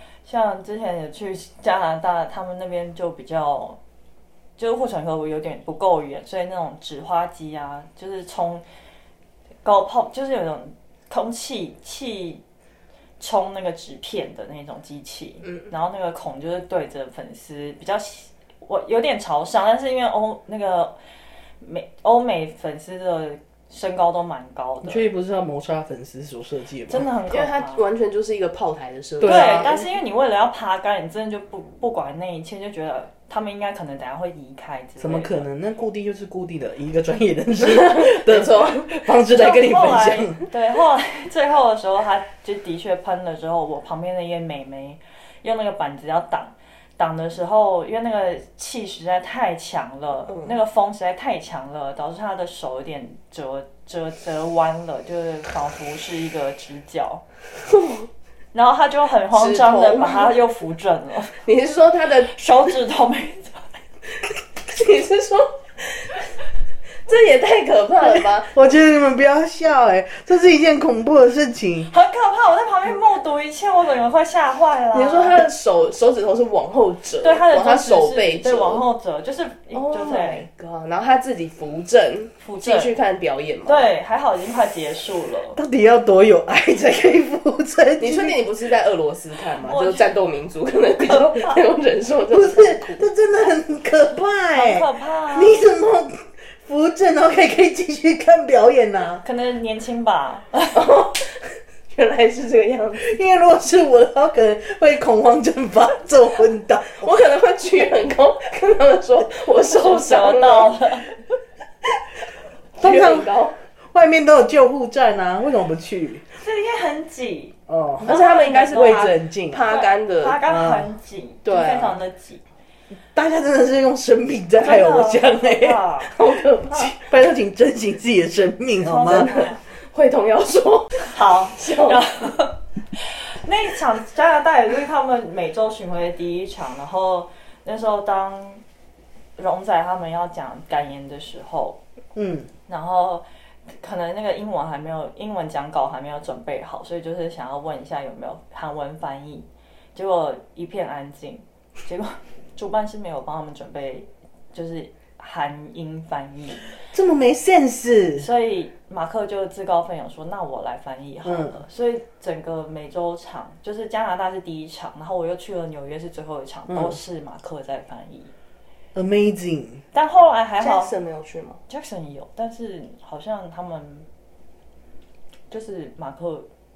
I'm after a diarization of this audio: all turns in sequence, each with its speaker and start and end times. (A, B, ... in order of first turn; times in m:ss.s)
0:00.2-0:03.8 A
0:04.6-0:08.6 A
0:09.6-0:12.4 A
0:13.2-0:21.0 A
0:21.6-0:25.1 A
0:24.8-0:27.1 B
0:26.9-0:27.8 A
0:27.3-0:29.8 C
0:29.2-0:29.8 B
0:29.2-0:35.5 A
0:35.0-0:40.4 B
0:37.6-0:39.1 C
0:39.2-0:57.2 A
0:57.6-0:58.1 C
0:58.5-1:01.4 A
0:59.3-1:00.3 C
1:01.4-1:02.3 C
1:02.2-1:03.8 A
1:04.6-1:06.2 C
1:07.0-1:08.7 C
1:08.2-1:11.9 B
1:11.9-1:15.4 A
1:14.9-1:18.8 C
1:17.2-1:20.5 A
1:19.7-1:23.9 C
1:22.4-1:22.9 A
1:23.6-1:25.6 A
1:25.5-1:28.4 B
1:28.0-1:33.1 C
1:29.6-1:30.1 A
1:31.1-1:31.6 A
1:32.3-1:39.2 B
1:34.5-1:35.6 A
1:39.2-1:40.8 A
1:40.7-1:43.0 C
1:43.0-1:47.1 B
1:47.0-1:50.8 C
1:49.7-1:51.2 A
1:52.8-1:53.6 C
1:52.8-1:56.2 B
1:56.4-2:02.4 A
1:57.7-1:58.1 B
1:58.0-2:00.4 C
1:58.7-1:59.6 B
2:00.4-2:00.9 B
2:01.4-2:01.9 C
2:03.1-2:05.8 B
2:04.6-2:06.1 A
2:06.1-2:06.9 C
2:06.7-2:09.3 B
2:08.8-2:09.6 A
2:09.1-2:12.0 C
2:11.0-2:18.6 A
2:19.4-2:21.8 A
2:22.1-2:22.5 B
2:22.7-2:36.7 A
2:36.8-2:38.3 B
2:38.2-2:48.3 A
2:41.2-2:41.6 B
2:46.7-2:47.0 B
2:48.9-2:49.8 B
2:49.9-2:50.9 A
2:50.6-2:51.6 C
2:51.7-2:54.1 A
2:55.5-2:56.5 A